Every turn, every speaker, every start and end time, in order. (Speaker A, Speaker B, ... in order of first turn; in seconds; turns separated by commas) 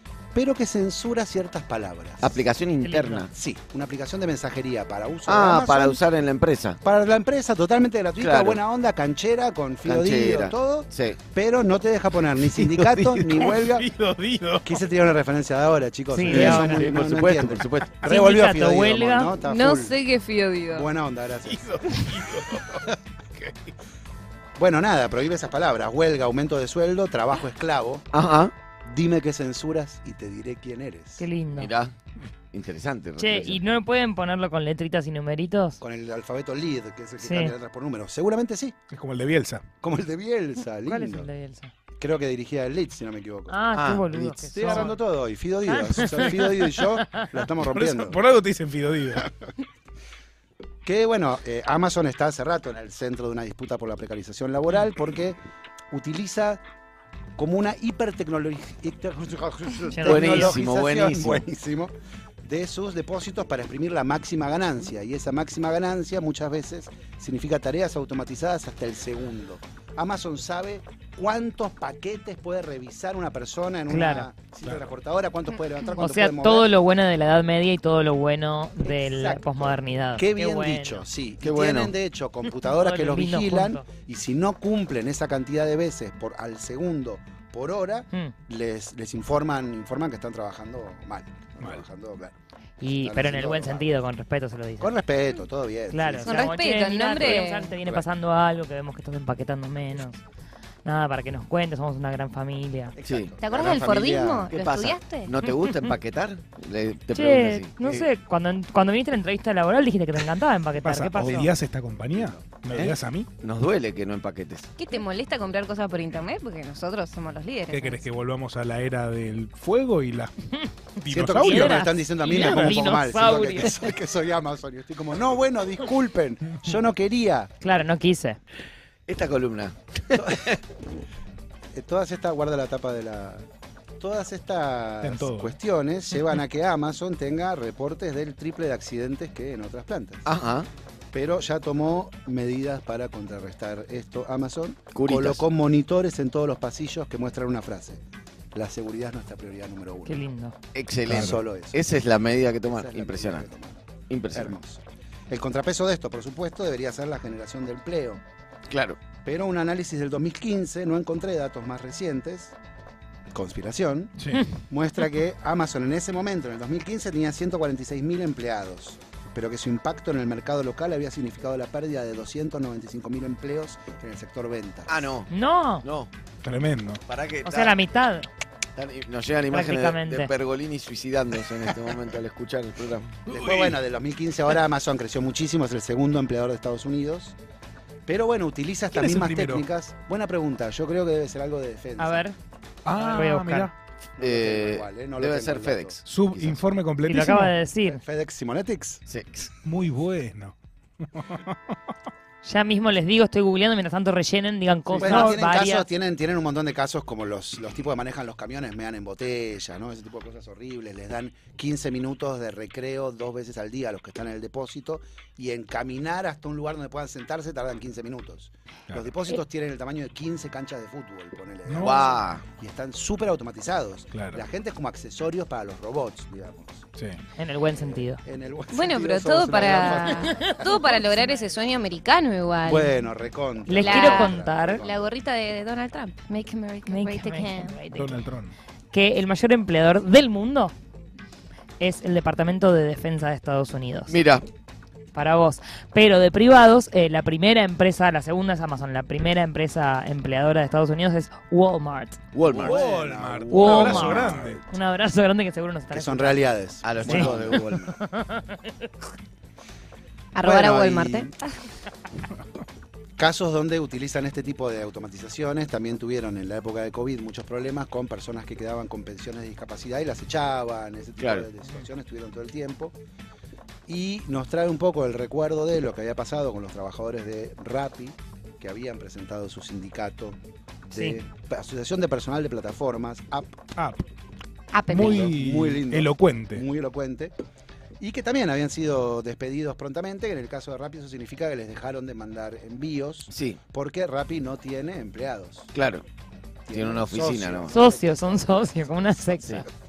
Speaker A: 0.3-2.4, Speaker B: 2.2-3.3, Speaker C: 2.8-3.3, Speaker A: 3.3-6.0, Speaker B: 5.3-6.8, Speaker A: 6.8-13.9, Speaker B: 8.2-8.6, Speaker B: 9.8-11.2, Speaker B: 12.5-13.3, Speaker D: 13.4-14.8, Speaker A: 14.7-20.0, Speaker C: 16.1-16.9, Speaker B: 16.3-18.1, Speaker C: 18.1-19.4, Speaker E: 19.4-20.9, Speaker A: 20.7-21.9, Speaker D: 21.5-23.7, Speaker A: 24.6-28.1, Speaker B: 28.1-28.5, Speaker A: 28.9-31.2, Speaker C: 31.2-31.7, Speaker B: 31.5-31.9, Speaker B: 32.5-33.6, Speaker C: 33.2-35.8, Speaker A: 35.8-38.8, Speaker C: 37.2-37.6, Speaker D: 38.9-39.6, Speaker A: 39.8-41.3, Speaker C: 40.9-41.7, Speaker A: 42.0-43.6, Speaker C: 43.5-45.0, Speaker B: 43.7-44.9, Speaker A: 44.5-48.2, Speaker D: 44.6-44.9, Speaker C: 45.7-47.4, Speaker D: 47.7-49.3, Speaker A: 50.9-55.4, Speaker A: 55.9-56.6, Speaker A: 57.4-61.9, Speaker C: 59.9-60.5, Speaker B: 60.0-61.4, Speaker D: 60.1-60.6, Speaker A: 62.4-76.7, Speaker C: 73.9-74.3, Speaker C: 76.0-81.1, Speaker A: 78.8-94.0, Speaker B: 81.4-81.9, Speaker C: 82.6-83.9, Speaker C: 92.8-95.0, Speaker A: 94.8-96.5, Speaker C: 95.9-100.2, Speaker E: 96.2-97.8, Speaker A: 97.2-98.0, Speaker C: 100.8-103.0, Speaker A: 102.9-104.5, Speaker B: 103.0-103.3, Speaker E: 103.4-105.3, Speaker B: 104.5-108.1, Speaker C: 105.5-105.9, Speaker C: 107.1-111.5, Speaker D: 110.8-113.3, Speaker A: 112.2-112.4, Speaker B: 112.7-114.7, Speaker E: 114.8-118.0, Speaker D: 117.7-120.3, Speaker D: 121.0-122.9, Speaker A: 121.1-127.5, Speaker C: 121.4-123.9, Speaker C: 127.6-128.4, Speaker B: 129.1-130.6, Speaker A: 130.2-130.6, Speaker A: 131.7-133.5, Speaker A: 134.0-140.3, Speaker D: 135.0-135.5, Speaker B: 140.3-140.7, Speaker A: 141.1-148.0, Speaker B: 144.9-145.4, Speaker A: 148.5-150.2, Speaker C: 150.1-150.6, Speaker B: 150.7-153.5, Speaker A: 151.1-151.8, Speaker D: 151.1-151.3, Speaker A: 152.7-158.2, Speaker B: 154.1-154.6, Speaker B: 158.7-159.0, Speaker A: 159.2-162.6, Speaker A: 163.3-175.1, Speaker D: 164.2-164.4, Speaker B: 174.9-175.3, Speaker C: 175.3-175.9, Speaker B: 175.8-176.1, Speaker D: 176.4-177.0, Speaker B: 177.1-177.8, Speaker C: 177.4-178.3, Speaker B: 178.8-183.1, Speaker C: 179.5-180.3, Speaker A: 183.3-187.4, Speaker D: 183.3-183.8, Speaker A: 188.1-192.2, Speaker D: 188.9-189.6, Speaker C: 192.0-192.4, Speaker D: 192.8-193.7, Speaker C: 192.9-193.7, Speaker A: 194.2-196.6, Speaker B: 194.2-196.0, Speaker D: 196.1-197.6, Speaker C: 197.0-198.0, Speaker A: 197.9-199.0, Speaker B: 199.1-199.5, Speaker D: 199.6-201.6, Speaker C: 202.4-205.9, Speaker D: 204.9-205.4, Speaker A: 205.0-226.9, Speaker D: 221.7-222.1, Speaker B: 221.8-222.4, Speaker D: 224.1-224.4, Speaker D: 227.0-227.2, Speaker C: 227.4-228.2, Speaker A: 227.6-230.6, Speaker E: 228.7-232.9, Speaker C: 229.9-231.6, Speaker A: 232.7-235.1, Speaker C: 233.7-234.8, Speaker E: 233.8-237.8, Speaker C: 236.9-238.2, Speaker D: 237.9-238.6, Speaker C: 238.9-240.7, Speaker C: 241.8-244.1, Speaker B: 244.1-244.5, Speaker C: 245.1-252.2, Speaker B: 252.3-252.9, Speaker A: 252.5-254.8, Speaker D: 252.6-254.6, Speaker C: 253.5-258.9, Speaker A: 255.9-258.0, Speaker B: 256.8-257.8, Speaker E: 260.3-261.6, Speaker A: 260.4-261.3, Speaker A: 263.2-273.0, Speaker B: 271.2-271.5, Speaker A: 273.9-283.6, Speaker C: 280.9-281.2, Speaker D: 283.8-284.1, Speaker E: 284.7-285.3, Speaker D: 284.9-286.6, Speaker A: 285.0-287.3, Speaker A: 288.0-295.7, Speaker B: 293.3-293.6, Speaker B: 295.7-296.1, Speaker A: 296.7-298.6, Speaker B: 296.7-297.8, Speaker C: 297.7-299.6